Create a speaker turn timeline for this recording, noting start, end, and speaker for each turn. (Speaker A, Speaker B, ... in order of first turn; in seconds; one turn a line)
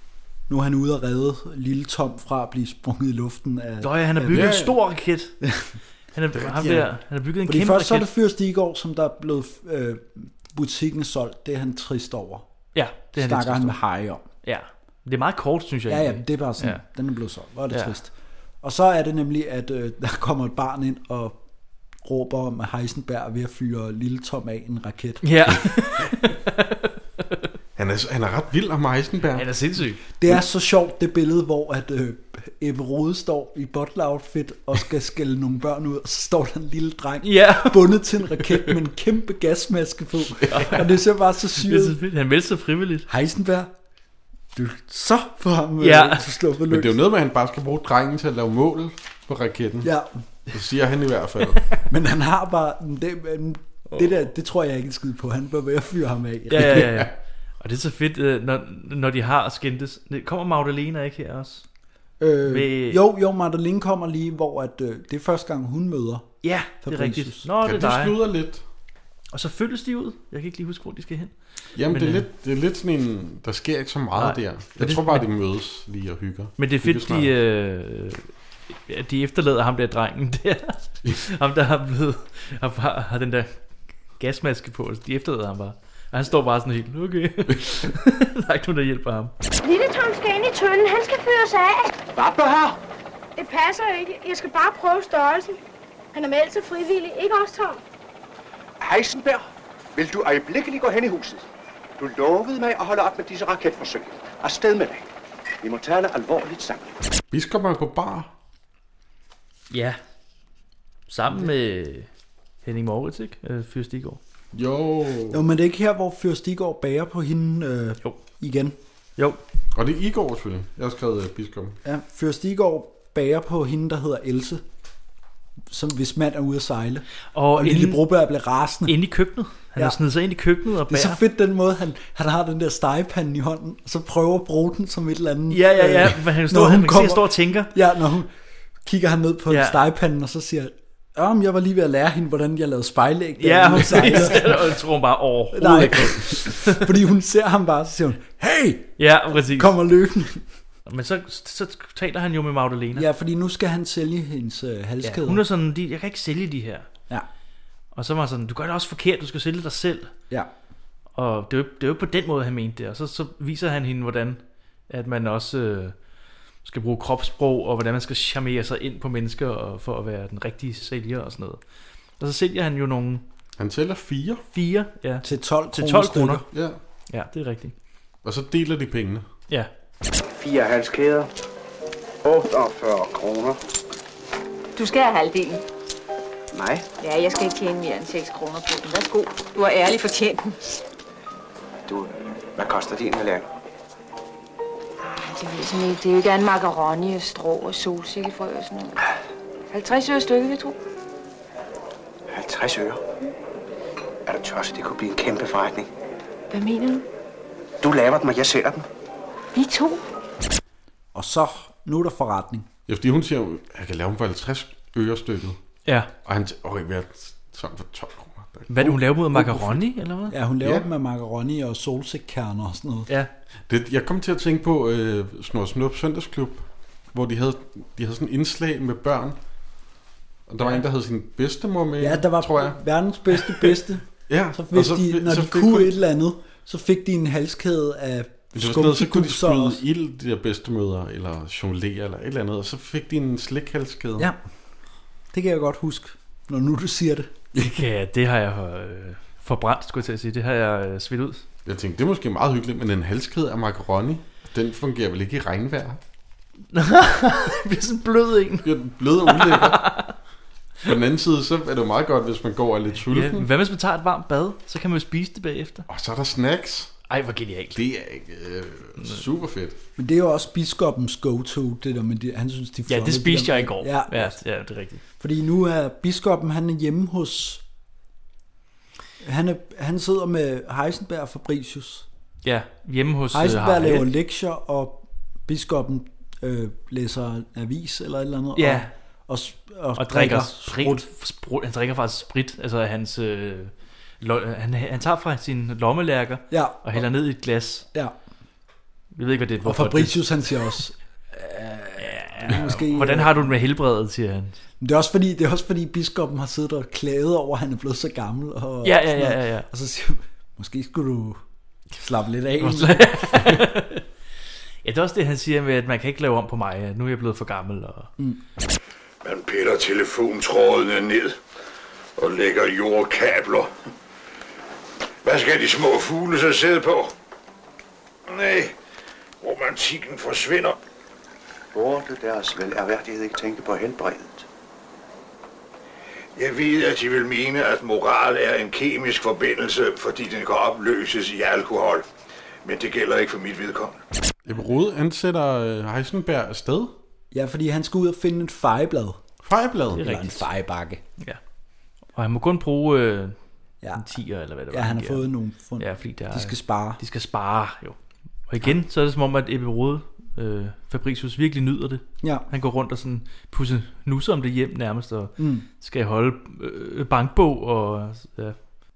Speaker A: 0.5-4.5
Speaker B: 3.8-5.3
Speaker C: 4.3-4.8
Speaker A: 5.4-5.7
Speaker B: 6.1-8.1
Speaker C: 6.4-6.8
Speaker A: 7.5-12.5
Speaker B: 12.7-13.8
Speaker A: 13.1-14.2
Speaker B: 14.4-16.8
Speaker A: 15.9-18.1
Speaker A: 18.6-21.4
Speaker A: 22.0-25.5
Speaker B: 25.2-26.9
Speaker C: 27.8-29.5
Speaker B: 29.3-30.0
Speaker A: 30.2-42.0
Speaker B: 37.2-38.4
Speaker B: 40.4-40.9
Speaker B: 41.5-43.1
Speaker A: 43.1-43.7
Speaker A: 44.5-47.0
Speaker B: 45.8-46.2
Speaker C: 46.7-49.9
Speaker A: 49.8-50.1
Speaker C: 50.5-51.7
Speaker A: 51.9-57.1
Speaker B: 56.5-61.6
Speaker C: 56.6-57.0
Speaker A: 62.2-67.5
Speaker B: 62.4-63.0
Speaker B: 66.4-68.1
Speaker C: 67.6-68.6
Speaker B: 69.3-71.3
Speaker C: 71.8-77.3
Speaker B: 71.9-72.2
Speaker B: 74.2-75.2
Speaker B: 76.6-78.3
Speaker B: 78.9-83.5
Speaker B: 84.2-89.3
Speaker D: 89.6-92.0
Speaker E: 92.1-92.8
Speaker D: 93.4-95.6
Speaker D: 96.1-97.8
Speaker E: 98.8-101.5
Speaker E: 102.0-105.0
Speaker E: 105.6-106.9
Speaker C: 107.3-108.3
Speaker B: 109.7-110.0
Speaker B: 111.1-112.1
Speaker B: 112.6-114.2
Speaker C: 114.5-115.4
Speaker A: 115.3-118.8
Speaker C: 119.7-121.8
Speaker A: 121.8-124.6
Speaker A: 125.7-127.0
Speaker B: 127.3-128.1
Speaker A: 127.5-129.0
Speaker B: 128.9-131.2
Speaker A: 130.9-138.3
Speaker B: 135.5-137.7
Speaker A: 138.8-144.8
Speaker B: 139.5-139.8
Speaker B: 143.4-146.9
Speaker A: 145.5-150.4
Speaker B: 149.0-149.7
Speaker B: 150.9-153.1
Speaker A: 152.9-155.4
Speaker B: 155.0-156.9
Speaker B: 157.9-160.1
Speaker B: 161.1-165.9
Speaker B: 166.6-171.6
Speaker B: 172.2-173.2
Speaker C: 173.6-174.4
Speaker B: 174.5-176.4
Speaker A: 175.2-176.5
Speaker C: 176.5-176.8
Speaker B: 177.1-177.7
Speaker C: 178.2-179.2
Speaker E: 182.5-183.5
Speaker F: 184.8-185.6
Speaker E: 186.6-186.8
Speaker F: 187.0-190.8
Speaker E: 191.9-193.4
Speaker F: 195.2-198.9
Speaker F: 199.7-200.8
Speaker E: 202.3-203.0
Speaker E: 204.3-205.9
Speaker F: 206.5-207.0
Speaker E: 207.8-208.8
Speaker F: 209.5-210.0
Speaker A: 211.1-212.7
Speaker C: 212.9-215.6
Speaker C: 216.2-219.8
Speaker B: 218.7-220.3
Speaker A: 220.3-223.1
Speaker C: 223.7-229.4
Speaker C: 230.5-232.8
Speaker A: 232.0-239.8
Speaker C: 234.3-235.9
Speaker C: 238.5-244.3
Speaker A: 245.3-247.3
Speaker B: 247.5-251.4
Speaker C: 251.6-256.0
Speaker B: 256.7-258.7
Speaker C: 258.6-259.9
Speaker B: 259.2-260.1
Speaker C: 260.8-263.5
Speaker B: 263.1-265.8
Speaker C: 265.9-266.9
Speaker B: 267.1-267.8
Speaker C: 267.7-269.8
Speaker A: 270.0-274.4
Speaker B: 272.9-275.0
Speaker A: 275.2-277.6
Speaker A: 279.2-282.1
Speaker B: 282.4-284.1
Speaker A: 283.3-291.1
Speaker B: 288.6-288.9
Speaker B: 289.9-297.9
Speaker A: 296.5-297.0
Speaker B: 299.1-300.2
Speaker A: 299.6-303.5
Speaker B: 302.0-304.6
Speaker A: 304.8-311.4
Speaker B: 308.8-309.7
Speaker A: 311.9-313.5
Speaker B: 312.6-314.0
Speaker B: 314.8-318.1
Speaker G: 319.2-321.4
Speaker G: 322.2-323.7
Speaker G: 325.2-327.1
Speaker G: 328.3-328.7
Speaker G: 329.4-330.8
Speaker E: 331.7-334.4
Speaker G: 336.4-342.0
Speaker G: 342.6-344.0
Speaker C: 344.4-346.9
Speaker A: 347.3-349.2
Speaker C: 349.4-350.0
Speaker B: 349.9-350.4
Speaker A: 350.0-351.0
Speaker B: 352.1-353.4
Speaker A: 353.8-354.1
Speaker B: 353.9-355.3
Speaker A: 354.7-357.0
Speaker B: 355.8-358.0
Speaker B: 358.5-368.6
Speaker A: 365.4-365.7